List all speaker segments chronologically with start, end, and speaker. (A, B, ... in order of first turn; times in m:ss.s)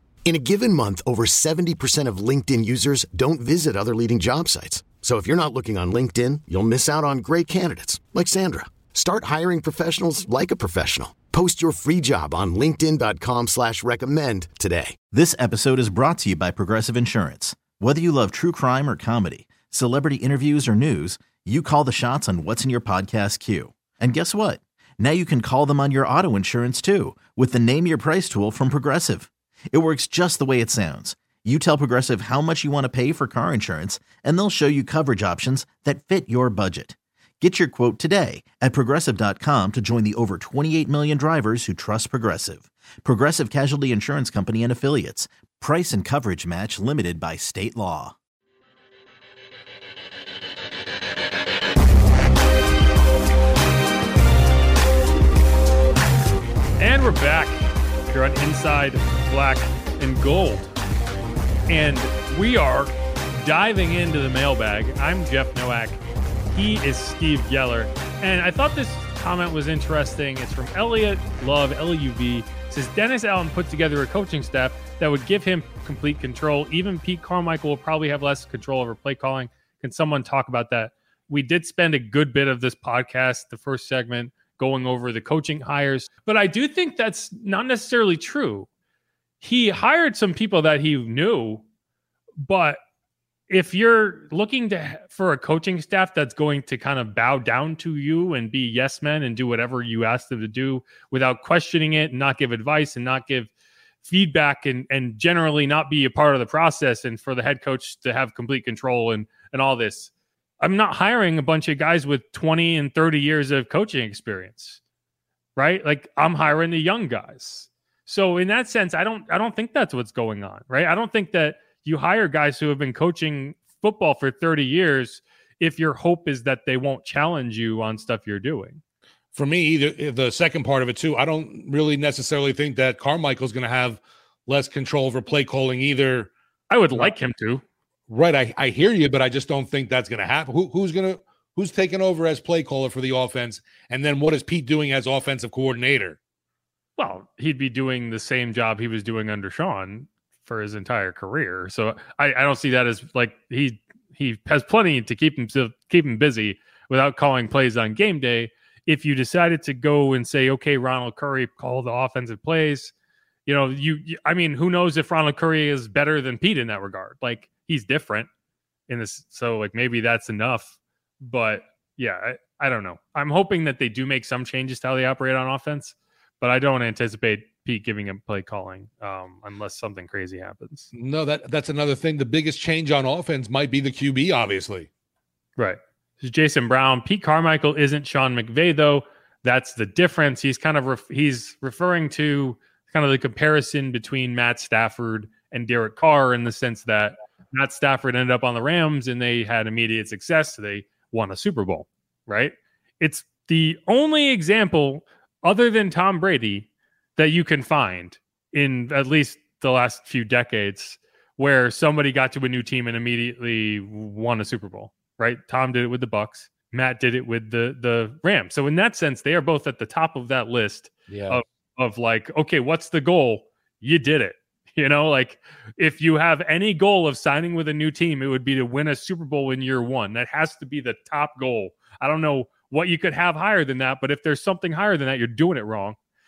0:00.2-0:15.0 A
0:15.1-0:48.2 B
0:56.8-0:57.6 C
0:58.1-1:00.7 C
1:01.7-1:06.0 C
1:06.5-1:28.7 C
1:29.4-1:31.6 C
1:32.4-1:32.8 C
1:33.5-1:43.5 C
1:44.0-1:54.8 C
1:55.6-2:08.8 C
2:09.3-2:16.3 D
2:16.7-2:17.6 C
2:18.1-2:26.2 D
2:27.0-2:42.9 C
2:43.5-2:48.3 C
2:48.9-3:00.9 C
3:00.9-3:04.9 D
3:05.6-3:56.0 C
3:41.1-3:41.4 D